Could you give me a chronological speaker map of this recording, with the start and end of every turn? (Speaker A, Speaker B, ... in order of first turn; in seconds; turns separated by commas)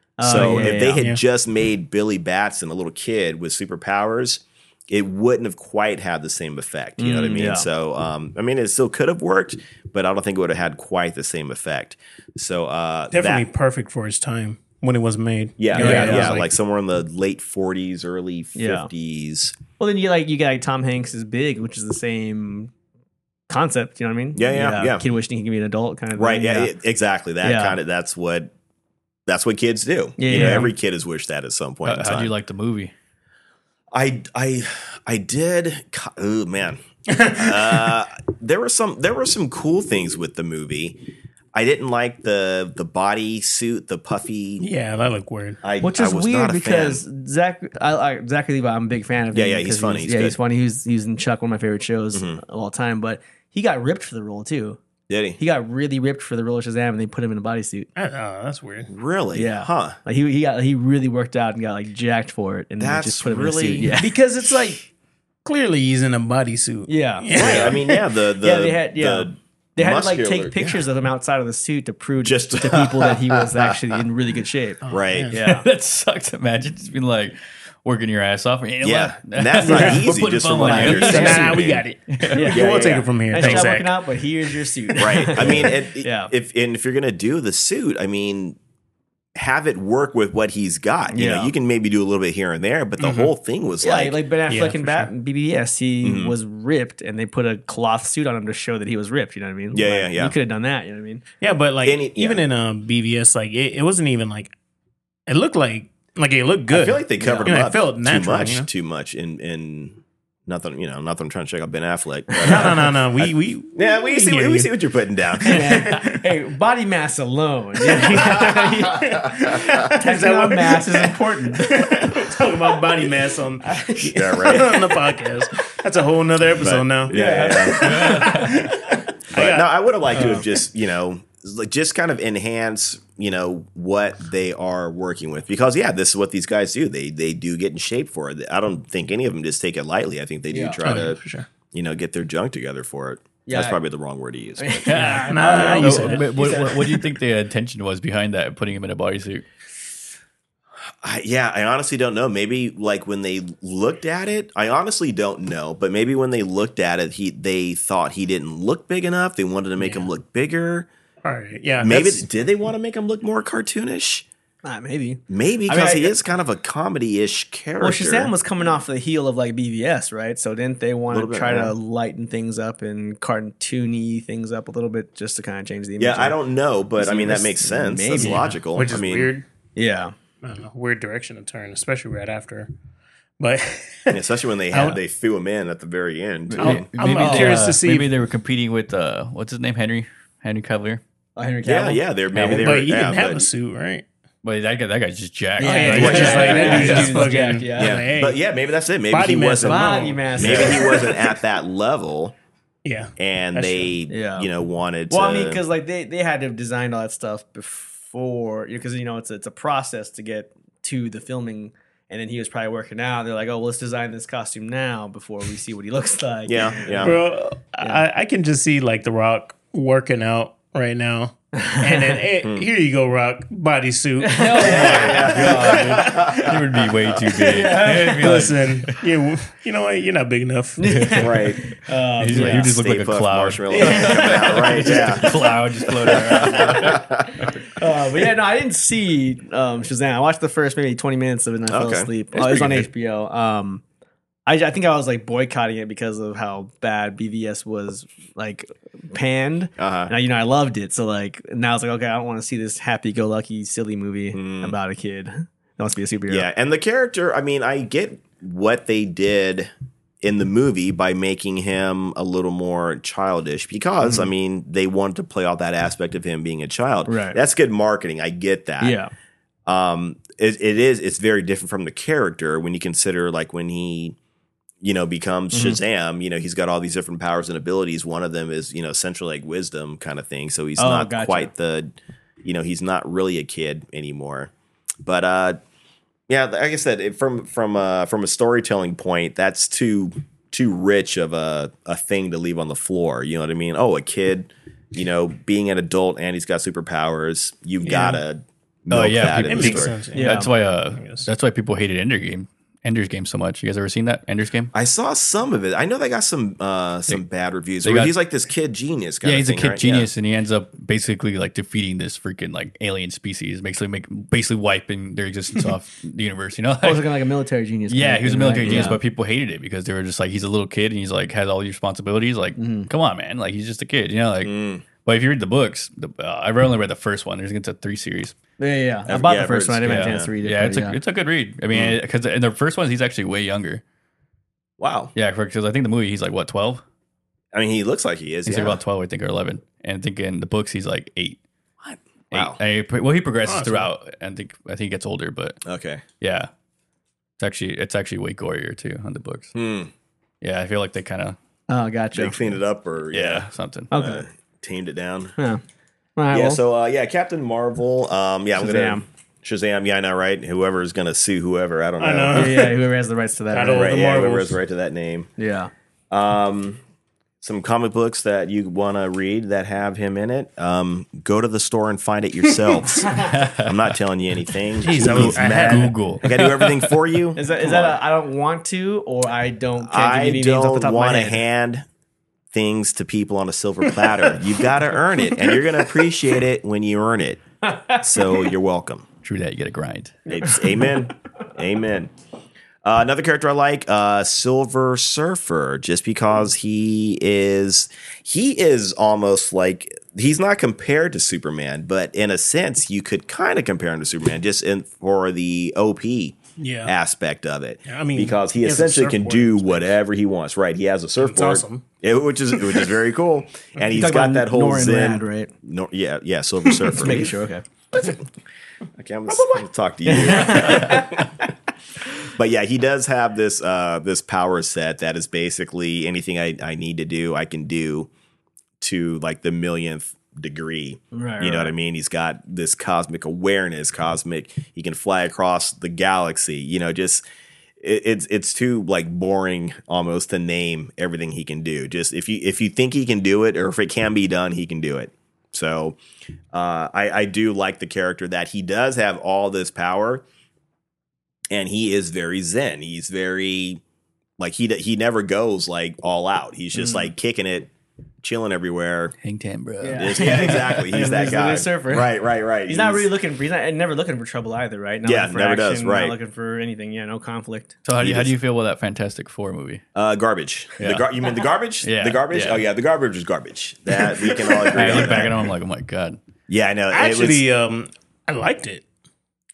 Speaker A: 0.2-1.0, Speaker B: 0.2-13.5, Speaker C: 0.5-1.2, Speaker A: 7.0-7.7, Speaker C: 13.1-16.5, Speaker B: 15.6-19.6, Speaker A: 15.7-16.4, Speaker A: 18.6-18.9, Speaker A: 19.8-22.7, Speaker A: 23.5-26.7, Speaker B: 24.3-25.1, Speaker B: 26.1-28.5, Speaker A: 27.4-27.8, Speaker B: 29.3-32.3, Speaker A: 30.2-30.7, Speaker D: 31.8-32.9, Speaker B: 33.9-44.7, Speaker C: 37.1-37.9, Speaker C: 44.6-45.6, Speaker B: 45.6-47.0, Speaker A: 45.8-54.8, Speaker B: 49.3-50.4, Speaker B: 52.1-52.4, Speaker B: 55.1-55.4, Speaker A: 55.4-57.9, Speaker C: 57.9-58.9, Speaker B: 58.9-60.0, Speaker A: 59.3-64.1, Speaker B: 62.8-64.0, Speaker C: 63.9-64.9, Speaker C: 65.4-67.8, Speaker A: 66.9-75.7, Speaker B: 67.3-70.8, Speaker B: 72.2-73.8, Speaker C: 74.8-75.3, Speaker B: 74.9-75.3, Speaker D: 75.3-82.5, Speaker B: 78.8-81.8, Speaker C: 79.7-80.0, Speaker A: 79.7-80.0, Speaker A: 80.6-81.3, Speaker C: 80.8-84.0, Speaker A: 82.3-86.3, Speaker B: 82.5-83.7, Speaker B: 85.0-88.6, Speaker B: 89.3-94.2, Speaker A: 91.1-91.5, Speaker C: 93.0-93.3, Speaker A: 93.8-101.2, Speaker C: 94.5-95.1, Speaker B: 96.0-96.3, Speaker B: 99.7-100.3, Speaker C: 101.4-104.5, Speaker B: 101.8-102.4, Speaker C: 105.3-108.7, Speaker B: 106.7-115.8, Speaker A: 107.2-107.6, Speaker C: 112.4-114.7, Speaker C: 115.4-116.2, Speaker A: 115.4-122.2, Speaker C: 117.9-129.7, Speaker A: 123.6-124.9, Speaker B: 124.1-124.9, Speaker B: 126.6-128.1, Speaker A: 127.1-128.6, Speaker D: 127.8-128.6, Speaker B: 129.3-141.2, Speaker A: 130.1-130.5, Speaker A: 140.5-140.8, Speaker C: 140.8-141.5, Speaker B: 141.7-145.8, Speaker A: 143.4-143.8, Speaker A: 144.6-147.1, Speaker D: 144.8-149.4, Speaker C: 145.3-146.5, Speaker B: 151.0-160.9, Speaker C: 159.8-160.1, Speaker C: 161.2-162.2, Speaker B: 161.8-164.2, Speaker A: 164.6-166.1, Speaker B: 165.3-168.3, Speaker A: 167.8-176.4, Speaker B: 171.1-171.7, Speaker B: 176.0-179.3, Speaker A: 176.9-178.5, Speaker C: 178.2-179.4, Speaker A: 179.8-180.1, Speaker C: 180.4-182.7, Speaker C: 183.4-185.0, Speaker B: 184.1-186.9, Speaker A: 186.5-187.7, Speaker C: 186.6-188.1, Speaker D: 186.6-191.0, Speaker A: 191.3-192.5, Speaker B: 191.6-193.5, Speaker D: 192.3-192.7, Speaker C: 192.5-194.1, Speaker D: 194.4-197.3, Speaker A: 195.6-198.0, Speaker C: 195.6-198.4, Speaker B: 195.9-197.0, Speaker B: 197.7-202.3, Speaker C: 199.1-201.0, Speaker A: 199.6-201.2, Speaker C: 202.8-203.9, Speaker B: 203.2-205.6, Speaker A: 204.1-204.5, Speaker A: 205.1-217.2, Speaker B: 216.4-217.2, Speaker C: 217.0-225.7, Speaker A: 221.6-222.2, Speaker A: 224.2-226.2, Speaker D: 224.3-229.0, Speaker B: 224.8-226.6, Speaker A: 227.3-228.5, Speaker C: 228.1-231.3, Speaker A: 230.8-232.7, Speaker D: 230.9-231.3, Speaker B: 231.2-231.6, Speaker D: 232.2-237.0, Speaker B: 232.3-237.5, Speaker A: 233.7-235.5, Speaker A: 236.2-237.0, Speaker A: 237.7-243.8, Speaker B: 241.7-242.9, Speaker A: 244.4-256.5, Speaker B: 249.8-250.1, Speaker B: 254.3-254.8, Speaker B: 256.3-259.7, Speaker B: 260.2-269.0, Speaker A: 267.1-267.4, Speaker A: 268.8-269.1, Speaker B: 269.6-274.1, Speaker B: 274.8-284.5, Speaker A: 275.5-275.8, Speaker A: 280.8-281.5, Speaker B: 285.0-285.6, Speaker B: 286.3-299.9, Speaker C: 297.8-298.2, Speaker D: 298.9-304.7, Speaker C: 299.4-301.3, Speaker A: 300.1-300.5, Speaker B: 304.7-310.1, Speaker D: 307.8-308.1, Speaker D: 309.2-317.2, Speaker A: 316.8-319.0, Speaker D: 317.9-328.3, Speaker B: 318.6-318.9, Speaker A: 322.6-322.9, Speaker B: 324.4-324.8, Speaker A: 328.6-331.0, Speaker B: 329.1-330.3, Speaker D: 329.8-333.8, Speaker B: 331.7-332.0, Speaker B: 334.8-335.1, Speaker D: 335.1-336.8, Speaker B: 337.5-338.8, Speaker D: 338.4-341.4, Speaker B: 341.9-342.6, Speaker D: 342.3-345.6, Speaker C: 343.4-343.9, Speaker B: 345.6-346.0, Speaker D: 346.2-346.5, Speaker D: 347.4-349.5, Speaker B: 349.5-349.9, Speaker D: 350.4-351.4, Speaker A: 351.7-352.4, Speaker B: 352.1-355.3, Speaker D: 353.1-353.9, Speaker A: 353.9-354.2, Speaker A: 356.1-356.6, Speaker B: 356.3-362.6, Speaker A: 358.6-359.0, Speaker C: 362.0-362.8, Speaker A: 362.3-364.0, Speaker C: 363.5-364.6, Speaker B: 363.7-365.3, Speaker A: 365.4-365.7, Speaker B: 366.1-366.8, Speaker B: 367.4-378.0, Speaker D: 373.2-373.9, Speaker C: 374.8-376.0, Speaker D: 374.8-376.9, Speaker A: 377.4-381.4, Speaker B: 379.8-381.9, Speaker B: 382.5-389.1, Speaker A: 387.6-388.0, Speaker D: 389.2-390.2, Speaker B: 390.3-392.1, Speaker B: 392.8-417.4, Speaker C: 406.6-406.9, Speaker C: 407.9-409.9, Speaker C: 411.2-411.8, Speaker A: 413.8-415.5, Speaker A: 416.9-417.6, Speaker B: 417.9-418.2, Speaker B: 419.0-421.5, Speaker A: 420.1-421.2, Speaker B: 422.3-428.1, Speaker B: 428.8-437.2, Speaker A: 431.1-431.7, Speaker B: 437.8-446.0, Speaker B: 446.5-450.2, Speaker B: 451.5-453.8, Speaker B: 454.4-457.7, Speaker A: 456.8-457.0, Speaker B: 458.2-459.1, Speaker D: 459.2-460.8, Speaker A: 459.8-462.1, Speaker B: 459.9-463.1, Speaker A: 462.7-467.8, Speaker B: 465.0-466.1, Speaker D: 467.8-469.8, Speaker B: 468.0-468.3, Speaker B: 469.9-475.4, Speaker D: 470.8-471.1, Speaker D: 471.8-472.6, Speaker D: 474.7-476.2, Speaker B: 476.5-477.4, Speaker C: 476.9-478.8